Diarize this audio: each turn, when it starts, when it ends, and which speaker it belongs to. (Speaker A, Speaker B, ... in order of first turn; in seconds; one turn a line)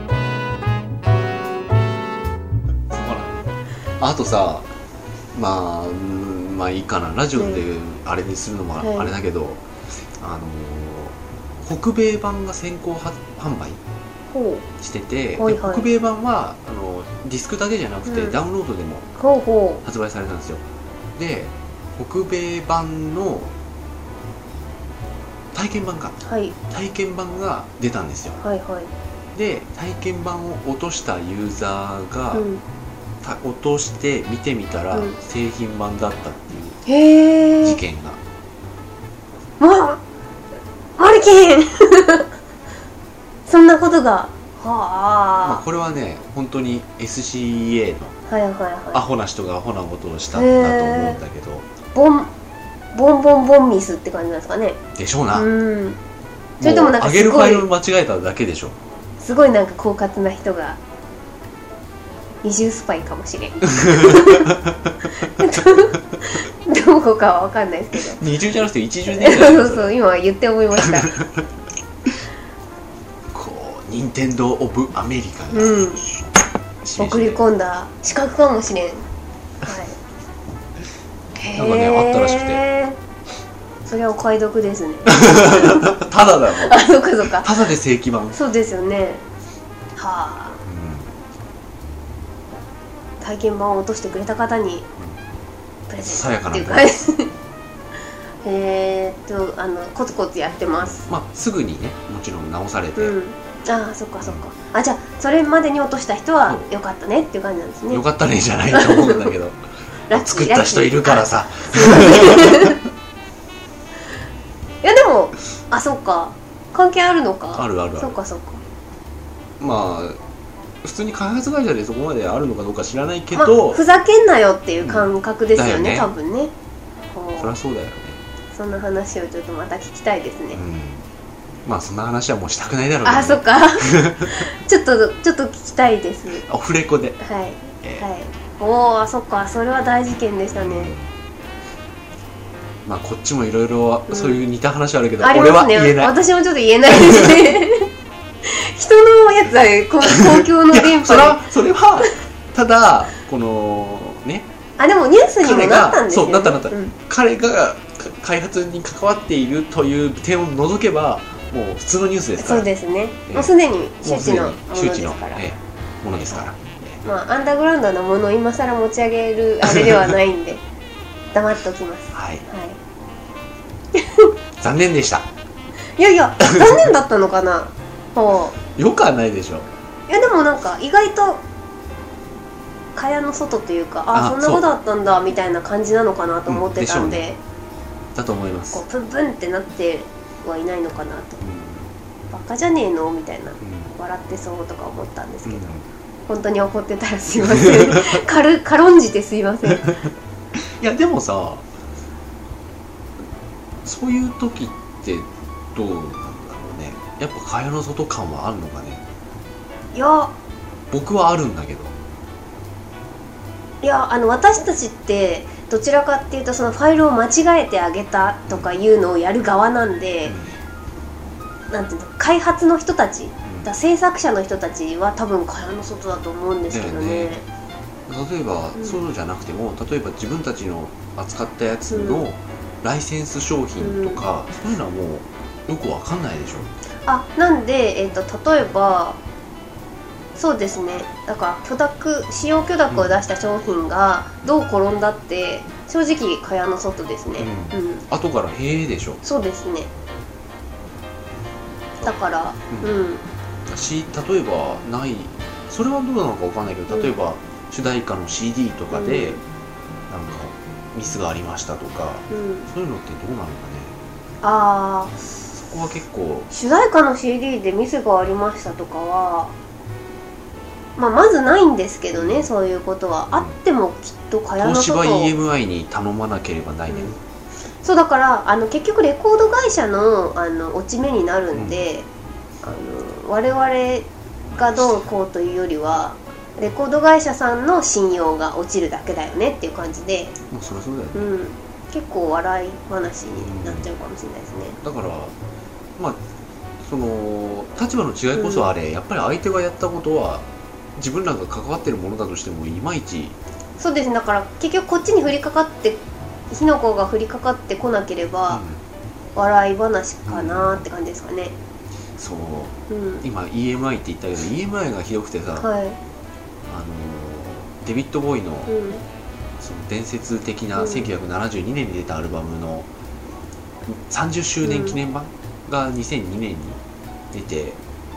Speaker A: 2.9-3.4
Speaker A: 4.0-4.7
Speaker A: 5.3-13.8
Speaker B: 7.4-7.6
Speaker B: 8.8-9.1
Speaker B: 14.3-14.7
Speaker A: 14.8-19.1
Speaker B: 15.4-15.9
Speaker B: 18.1-18.4
Speaker B: 19.2-19.8
Speaker A: 19.8-20.6
Speaker A: 21.2-23.5
Speaker A: 25.5-26.2
Speaker B: 26.3-26.6
Speaker A: 26.7-28.4
Speaker B: 28.4-28.9
Speaker A: 29.3-32.5
Speaker B: 32.3-32.6
Speaker A: 33.2-36.8
Speaker B: 34.9-35.2
Speaker B: 36.9-37.8
Speaker A: 37.6-38.2
Speaker B: 39.6-40.0
Speaker B: 41.0-42.3
Speaker B: 43.5-45.6
Speaker A: 45.4-48.2
Speaker B: 48.3-49.0
Speaker A: 48.9-51.7
Speaker B: 50.3-51.2
Speaker B: 52.0-52.3
Speaker B: 52.9-54.8
Speaker A: 55.0-55.5
Speaker B: 55.3-56.0
Speaker A: 56.6-58.8
Speaker B: 56.6-57.7
Speaker B: 59.2-60.8
Speaker B: 62.4-64.5
Speaker A: 63.8-66.2
Speaker B: 65.2-68.2
Speaker A: 68.0-70.0
Speaker B: 69.1-71.2
Speaker A: 70.8-71.5
Speaker A: 73.3-76.3
Speaker B: 75.5-76.0
Speaker A: 76.8-77.4
Speaker B: 77.0-79.0
Speaker B: 79.6-80.0
Speaker B: 81.4-83.0
Speaker A: 81.5-82.6
Speaker B: 83.9-86.0
Speaker A: 85.1-88.4
Speaker B: 86.5-87.6
Speaker B: 88.3-89.2
Speaker B: 90.0-90.6
Speaker A: 90.7-91.1
Speaker B: 93.2-94.9
Speaker B: 95.9-97.3
Speaker A: 96.1-96.9
Speaker B: 98.4-101.1
Speaker A: 100.8-103.2
Speaker B: 103.0-108.0
Speaker A: 107.9-112.8
Speaker B: 108.7-109.3
Speaker B: 110.1-112.8
Speaker B: 114.8-118.6
Speaker A: 117.5-118.2
Speaker A: 119.6-120.2
Speaker A: 120.8-123.8
Speaker B: 123.3-126.5
Speaker A: 124.8-126.1
Speaker B: 127.1-127.6
Speaker A: 127.4-128.2
Speaker B: 128.5-130.6
Speaker A: 130.5-131.1
Speaker A: 131.7-134.5
Speaker B: 133.1-136.4
Speaker A: 136.4-137.2
Speaker B: 137.2-141.0
Speaker A: 140.5-141.1
Speaker A: 142.8-146.2
Speaker B: 144.1-144.4
Speaker B: 145.2-147.9
Speaker A: 146.9-147.6
Speaker B: 148.4-151.4
Speaker A: 150.1-154.5
Speaker B: 154.8-156.9
Speaker A: 155.4-162.7
Speaker B: 162.4-165.5
Speaker A: 163.3-167.0
Speaker B: 167.0-170.6
Speaker A: 169.6-170.2
Speaker B: 171.3-172.8
Speaker A: 172.1-172.4
Speaker B: 173.9-174.3
Speaker A: 174.6-175.3
Speaker B: 176.0-178.6
Speaker A: 176.4-176.9
Speaker A: 178.7-179.7
Speaker B: 180.1-181.4
Speaker B: 182.9-187.4
Speaker A: 184.1-184.7
Speaker A: 186.5-187.3
Speaker A: 188.2-188.8
Speaker B: 188.7-191.4
Speaker A: 191.4-191.9
Speaker B: 192.3-200.0
Speaker A: 193.6-193.9
Speaker A: 195.4-195.9
Speaker A: 197.3-198.2
Speaker A: 200.6-201.7
Speaker A: 203.8-209.0
Speaker B: 209.9-210.3
Speaker A: 210.9-212.0
Speaker B: 213.8-220.4
Speaker A: 220.2-220.6
Speaker B: 221.7-227.4
Speaker A: 223.4-223.7
Speaker A: 226.7-227.3
Speaker A: 228.1-236.7
Speaker B: 228.8-229.0
Speaker B: 231.9-232.3
Speaker B: 233.8-234.2
Speaker B: 237.1-239.2
Speaker B: 240.4-248.0
Speaker A: 242.9-243.2
Speaker A: 247.4-249.2
Speaker B: 249.2-249.9
Speaker A: 252.0-252.9
Speaker B: 252.0-253.2
Speaker A: 253.7-259.4
Speaker B: 256.9-257.2
Speaker B: 258.9-259.4
Speaker A: 260.1-263.9
Speaker B: 262.3-262.7
Speaker B: 264.4-265.2
Speaker A: 265.5-266.5
Speaker B: 266.5-269.5
Speaker B: 271.0-275.3
Speaker A: 272.1-272.5
Speaker A: 273.3-273.6
Speaker A: 274.6-277.2
Speaker B: 276.9-277.2
Speaker B: 277.8-282.1
Speaker A: 281.5-281.9
Speaker B: 282.6-290.4
Speaker A: 284.5-285.0
Speaker A: 290.5-291.3
Speaker B: 291.1-294.8
Speaker A: 293.4-293.9
Speaker A: 294.8-295.4
Speaker A: 296.8-303.4
Speaker B: 298.4-298.7
Speaker B: 303.8-308.6
Speaker A: 308.5-308.8
Speaker B: 309.4-311.6
Speaker A: 310.3-310.9
Speaker A: 312.2-315.7
Speaker B: 312.9-313.2
Speaker B: 315.6-316.0
Speaker A: 316.7-318.7
Speaker B: 318.7-319.0
Speaker A: 319.6-322.9
Speaker B: 320.8-321.1
Speaker A: 323.9-326.8
Speaker B: 324.6-325.0
Speaker A: 327.3-327.8